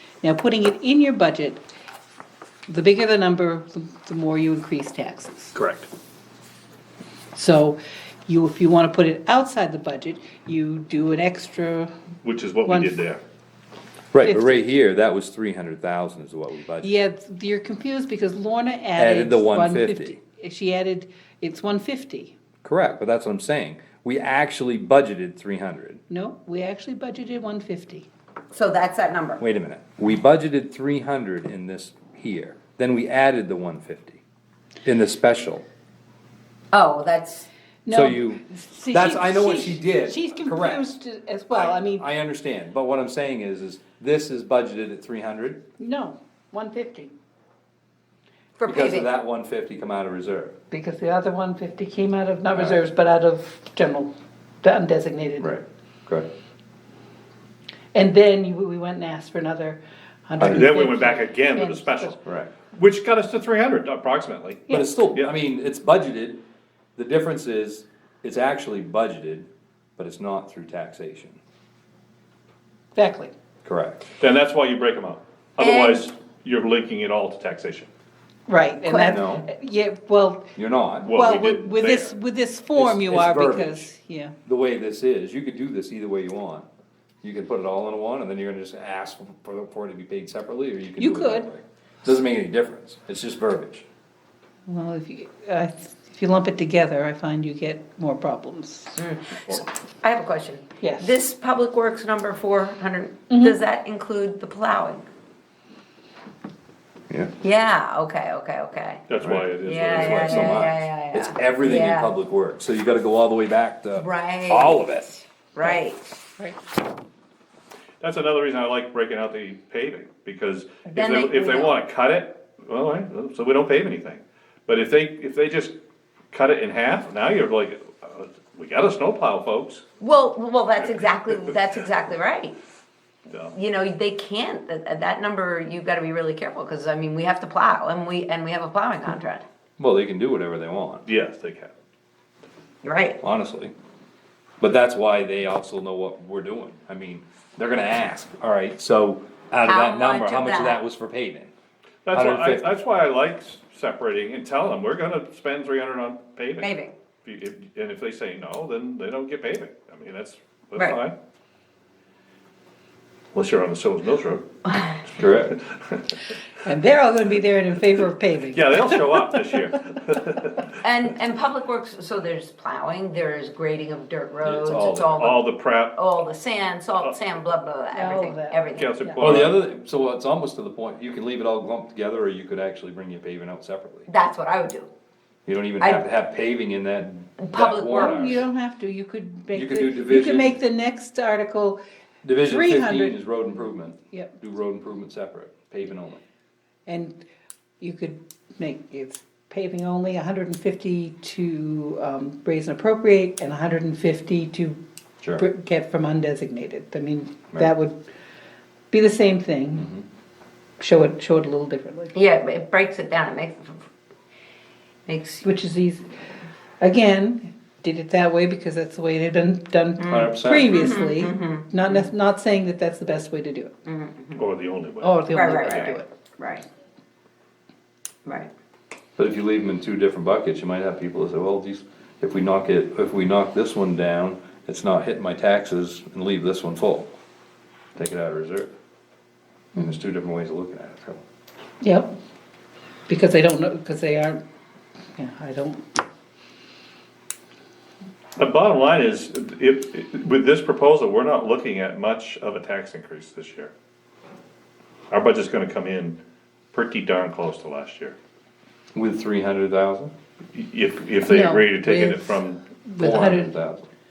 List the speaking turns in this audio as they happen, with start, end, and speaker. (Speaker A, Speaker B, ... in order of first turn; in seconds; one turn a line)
Speaker A: 0.2-1.6
Speaker A: 2.7-5.5
Speaker B: 5.6-5.8
Speaker A: 7.3-11.9
Speaker C: 12.2-13.2
Speaker A: 12.7-13.0
Speaker B: 14.1-17.1
Speaker A: 14.2-14.7
Speaker A: 16.8-22.3
Speaker B: 19.0-20.2
Speaker B: 22.6-26.0
Speaker A: 26.1-28.1
Speaker D: 28.5-29.4
Speaker B: 29.4-34.2
Speaker B: 34.8-35.6
Speaker D: 36.7-37.5
Speaker A: 37.9-42.1
Speaker B: 37.9-40.9
Speaker B: 41.6-45.6
Speaker A: 45.8-47.1
Speaker D: 48.6-49.1
Speaker B: 48.6-50.5
Speaker A: 50.7-55.5
Speaker B: 55.4-56.3
Speaker A: 57.9-62.2
Speaker B: 60.4-60.7
Speaker C: 60.4-62.2
Speaker B: 62.2-62.5
Speaker C: 62.7-65.3
Speaker A: 64.7-65.0
Speaker B: 64.7-66.4
Speaker B: 67.0-71.4
Speaker A: 73.0-73.3
Speaker B: 73.7-74.1
Speaker C: 74.2-77.9
Speaker D: 75.6-76.1
Speaker A: 78.5-80.5
Speaker D: 78.8-79.2
Speaker B: 79.1-79.5
Speaker B: 80.6-81.1
Speaker C: 81.0-82.2
Speaker A: 81.1-84.3
Speaker B: 82.8-83.9
Speaker B: 84.5-86.7
Speaker B: 87.2-93.8
Speaker A: 91.0-91.5
Speaker A: 94.7-99.0
Speaker D: 99.0-105.1
Speaker A: 100.8-101.2
Speaker A: 103.3-103.6
Speaker D: 107.4-109.0
Speaker C: 109.1-110.7
Speaker B: 109.2-115.2
Speaker D: 109.6-112.2
Speaker D: 114.0-114.8
Speaker D: 115.5-116.1
Speaker C: 118.0-125.7
Speaker D: 120.9-121.8
Speaker C: 126.3-129.8
Speaker D: 130.0-132.6
Speaker C: 130.8-131.8
Speaker D: 133.5-139.4
Speaker B: 139.8-141.1
Speaker C: 141.1-141.7
Speaker D: 142.8-143.2
Speaker B: 143.2-143.7
Speaker B: 144.6-151.5
Speaker D: 149.6-150.8
Speaker C: 152.1-156.7
Speaker B: 152.1-152.7
Speaker D: 156.6-156.9
Speaker C: 157.2-161.2
Speaker C: 163.3-164.4
Speaker D: 164.7-165.1
Speaker B: 165.2-165.6
Speaker A: 166.6-169.7
Speaker C: 168.5-170.8
Speaker D: 170.8-178.9
Speaker B: 174.4-175.4
Speaker C: 175.0-176.1
Speaker C: 177.0-177.5
Speaker A: 177.9-179.3
Speaker C: 178.8-179.6
Speaker B: 179.2-184.1
Speaker D: 184.1-184.9
Speaker B: 185.5-188.4
Speaker D: 187.4-188.3
Speaker A: 187.9-191.8
Speaker B: 189.5-190.6
Speaker B: 192.2-196.2
Speaker A: 192.4-193.2
Speaker A: 196.9-197.2
Speaker A: 197.8-204.8
Speaker A: 205.4-208.0
Speaker A: 208.9-210.0
Speaker A: 210.8-212.1
Speaker D: 212.1-213.8
Speaker D: 215.1-215.5
Speaker A: 215.4-216.2
Speaker A: 216.8-223.7
Speaker D: 220.0-222.1
Speaker B: 220.1-220.8
Speaker D: 223.9-224.4
Speaker C: 224.4-225.9
Speaker A: 225.0-226.1
Speaker D: 225.3-226.7
Speaker D: 228.2-228.5
Speaker B: 229.2-237.1
Speaker B: 238.0-238.7
Speaker B: 239.8-241.2
Speaker A: 241.8-242.1
Speaker A: 243.1-244.4
Speaker A: 245.2-245.8
Speaker C: 248.4-253.7
Speaker C: 255.1-256.2
Speaker C: 256.7-258.2
Speaker B: 258.9-260.1
Speaker C: 260.5-262.7
Speaker A: 261.3-263.5
Speaker B: 263.0-263.9